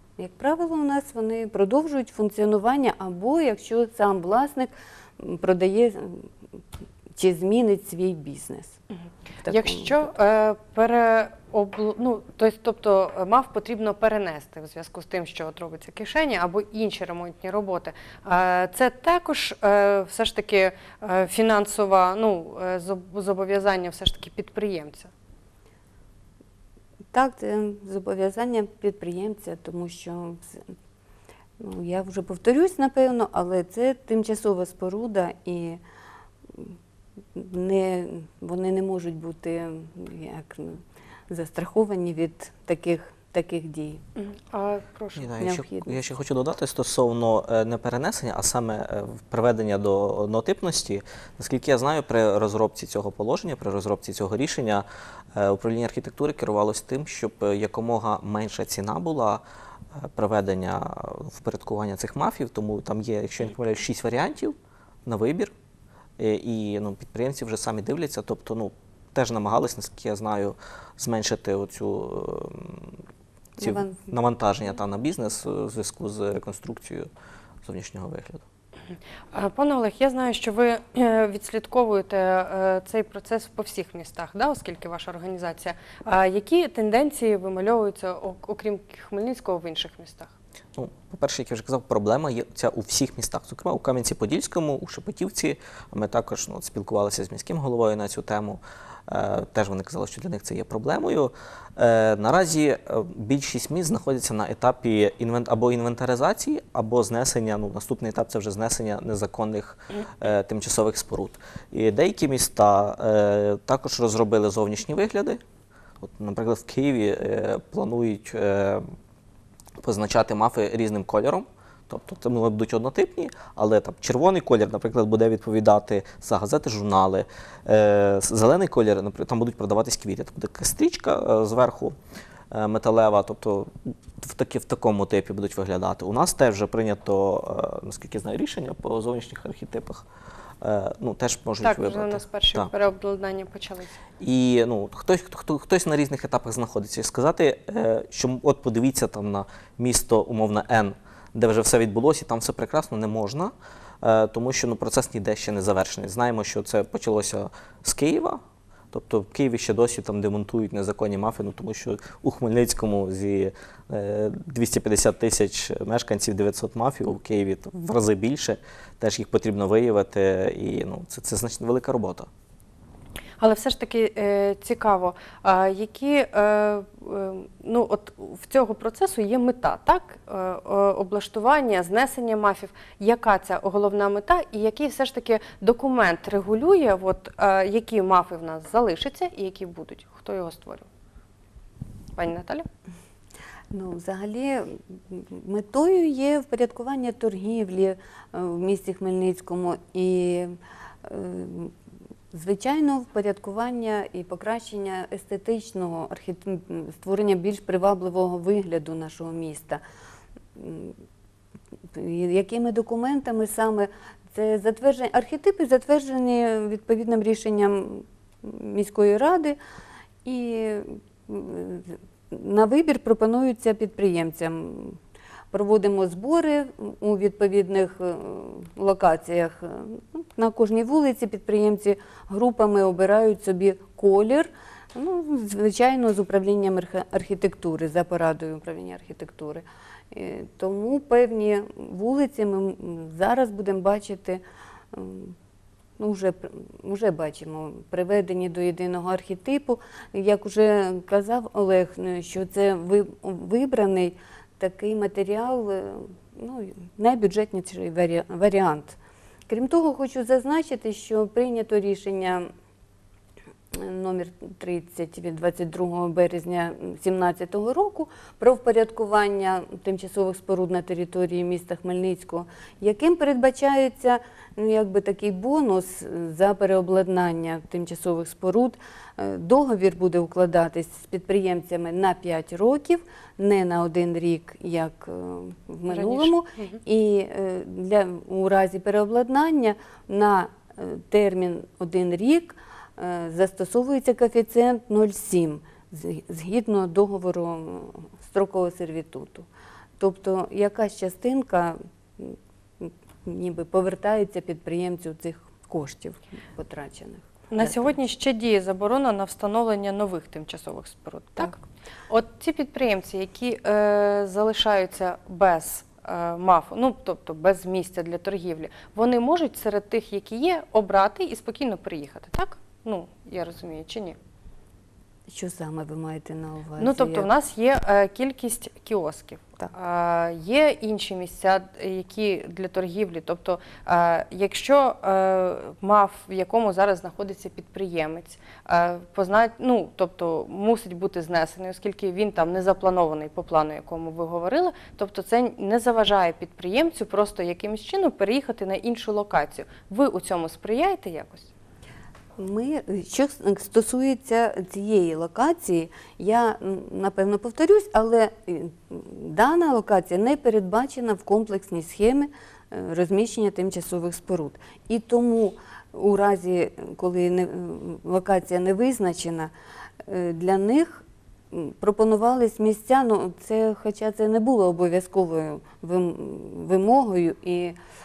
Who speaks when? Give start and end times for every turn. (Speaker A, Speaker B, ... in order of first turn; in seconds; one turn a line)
Speaker A: 0.2-6.3
Speaker A: 7.2-8.8
Speaker A: 9.4-10.1
Speaker B: 9.5-25.1
Speaker A: 27.1-30.6
Speaker A: 31.6-35.8
Speaker A: 37.3-44.0
Speaker B: 44.1-45.3
Speaker C: 45.2-59.4
Speaker A: 45.4-46.0
Speaker C: 59.9-65.5
Speaker C: 66.2-73.0
Speaker A: 73.6-74.1
Speaker C: 73.6-77.1
Speaker C: 77.6-78.4
Speaker B: 79.3-90.3
Speaker C: 90.7-115.4
Speaker C: 116.0-118.8
Speaker C: 119.8-131.9
Speaker C: 132.5-140.0
Speaker C: 140.6-142.7
Speaker B: 141.6-143.9
Speaker C: 144.2-172.3
Speaker B: 173.4-190.9
Speaker B: 192.2-192.7
Speaker A: 193.7-201.7
Speaker A: 202.3-209.8
Speaker A: 210.6-211.0
Speaker A: 211.9-219.6
Speaker A: 220.2-225.0
Speaker A: 225.5-244.4
Speaker A: 244.9-245.3
Speaker A: 246.0-259.0
Speaker A: 259.5-262.5
Speaker A: 263.7-299.5
Speaker B: 285.9-286.8
Speaker A: 300.0-307.9
Speaker B: 307.5-324.2
Speaker A: 325.3-327.3
Speaker B: 326.8-351.5
Speaker A: 352.4-369.5
Speaker A: 370.1-377.8